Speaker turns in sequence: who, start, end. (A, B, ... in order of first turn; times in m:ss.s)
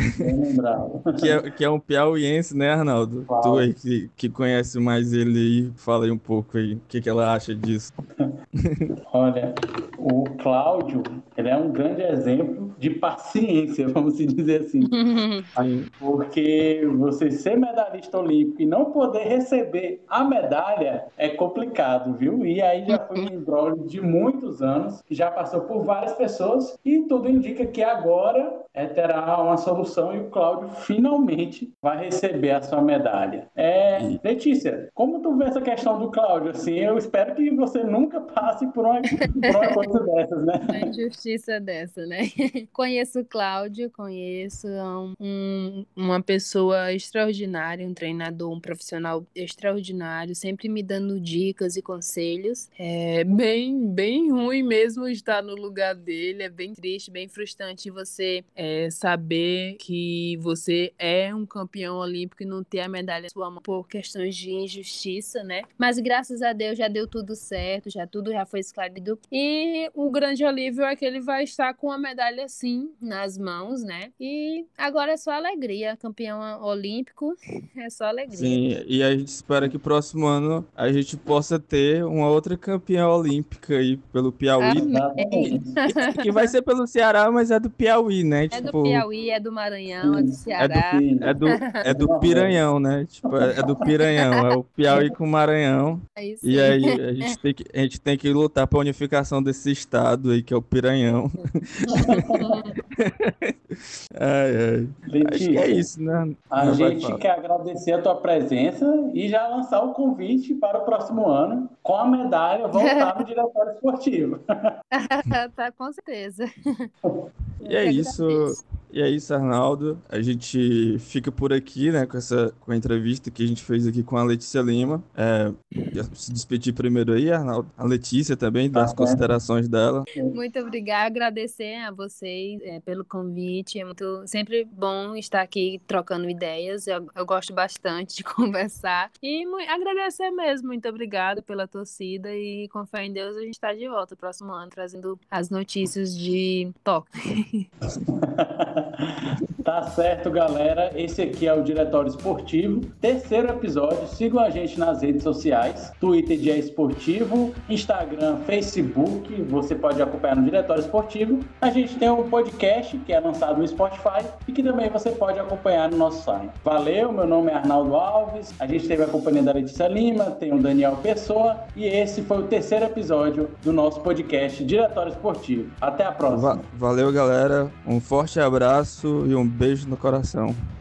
0:00.2-0:01.2 A
0:01.2-0:07.9 B
0:03.3-0:03.7 A
0:08.6-0:08.9 B
0:09.1-0:14.9 A
0:14.8-0:15.5 C
0:15.6-0:15.9 B
0:16.0-0:40.6 A
0:22.9-0:23.3 C
0:40.7-1:18.6 C
1:18.3-1:29.0 B
1:24.6-1:26.2 C
1:24.7-1:25.8 A
1:28.5-1:31.8 C
1:30.0-1:32.6 A
1:30.6-1:41.3 B
1:36.2-1:37.3 C
1:41.8-1:42.2 B
1:41.9-1:42.6 A
1:42.2-1:42.7 C
1:43.0-1:43.5 B
1:44.2-1:47.2 B
1:45.1-1:45.8 A
1:46.5-1:54.4 A
1:52.7-1:53.2 C
1:54.9-1:56.5 C
1:57.6-1:58.5 C
1:57.6-2:10.1 B
2:08.7-2:09.3 A
2:10.3-2:27.7 C
2:28.4-2:56.6 A
2:56.3-3:00.6 B